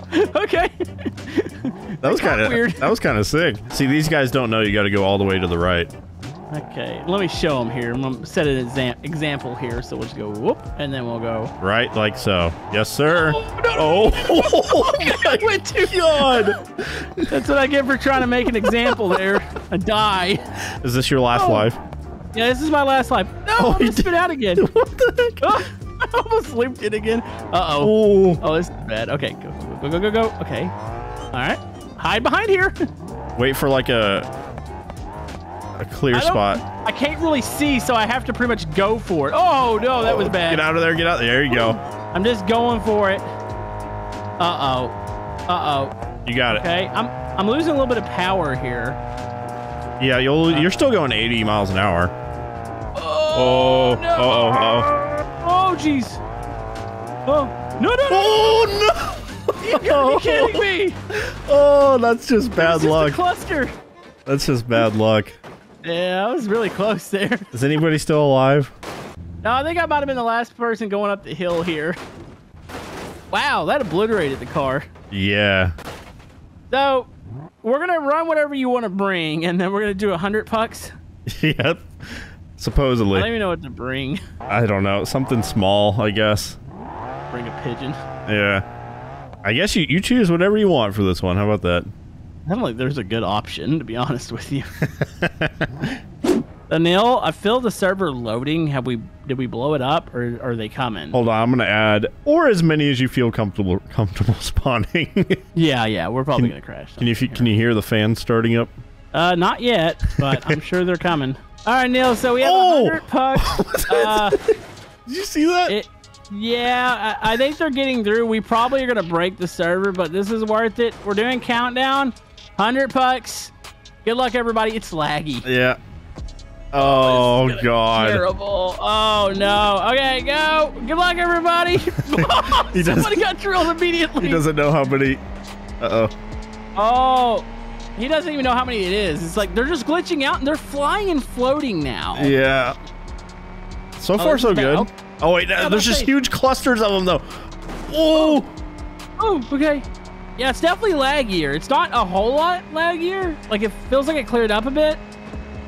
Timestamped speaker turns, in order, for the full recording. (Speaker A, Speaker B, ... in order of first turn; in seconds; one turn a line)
Speaker A: 0.1-2.9
Speaker B: 2.0-5.9
Speaker A: 6.5-11.5
Speaker B: 11.6-17.3
Speaker A: 13.1-16.6
Speaker A: 17.3-20.4
Speaker B: 18.6-19.2
Speaker B: 20.8-21.8
Speaker A: 21.3-21.7
Speaker A: 22.3-24.6
Speaker B: 23.6-25.6
Speaker A: 25.4-30.7
Speaker B: 27.8-28.4
Speaker A: 31.3-32.8
Speaker B: 33.4-34.3
Speaker B: 35.8-36.6
Speaker A: 36.1-40.6
Speaker B: 39.9-41.8
Speaker A: 41.5-43.2
Speaker A: 44.4-44.9
Speaker A: 45.5-45.9
Speaker B: 46.2-46.6
Speaker A: 46.5-49.0
Speaker B: 50.0-52.1
Speaker A: 53.0-56.2
Speaker B: 53.4-54.9
Speaker A: 57.2-58.6
Speaker B: 58.1-63.2
Speaker A: 59.6-61.0
Speaker A: 62.6-63.7
Speaker B: 64.2-65.4
Speaker A: 65.8-67.5
Speaker B: 67.5-68.7
Speaker A: 69.4-72.0
Speaker A: 73.3-74.9
Speaker B: 75.1-75.7
Speaker A: 76.7-77.1
Speaker A: 77.6-80.9
Speaker B: 81.3-83.3
Speaker A: 83.1-84.2
Speaker B: 84.5-86.6
Speaker A: 87.3-88.0
Speaker B: 88.3-88.6
Speaker B: 89.4-91.9
Speaker A: 92.5-94.8
Speaker B: 94.9-95.9
Speaker A: 96.7-101.2
Speaker B: 101.1-105.4
Speaker A: 105.5-107.5
Speaker B: 106.4-108.7
Speaker A: 109.1-114.4
Speaker B: 110.2-110.6
Speaker B: 112.4-114.5
Speaker B: 115.1-115.8
Speaker A: 115.7-123.5
Speaker A: 124.0-125.5
Speaker B: 125.5-125.8
Speaker B: 126.7-128.2
Speaker A: 126.8-134.4
Speaker B: 132.1-133.3
Speaker B: 134.2-135.2
Speaker B: 135.8-136.1
Speaker A: 136.8-142.3
Speaker B: 142.1-142.8
Speaker B: 144.0-148.5
Speaker A: 144.2-144.9
Speaker A: 145.6-146.1
Speaker A: 148.1-148.4
Speaker A: 149.2-149.9
Speaker A: 150.4-155.0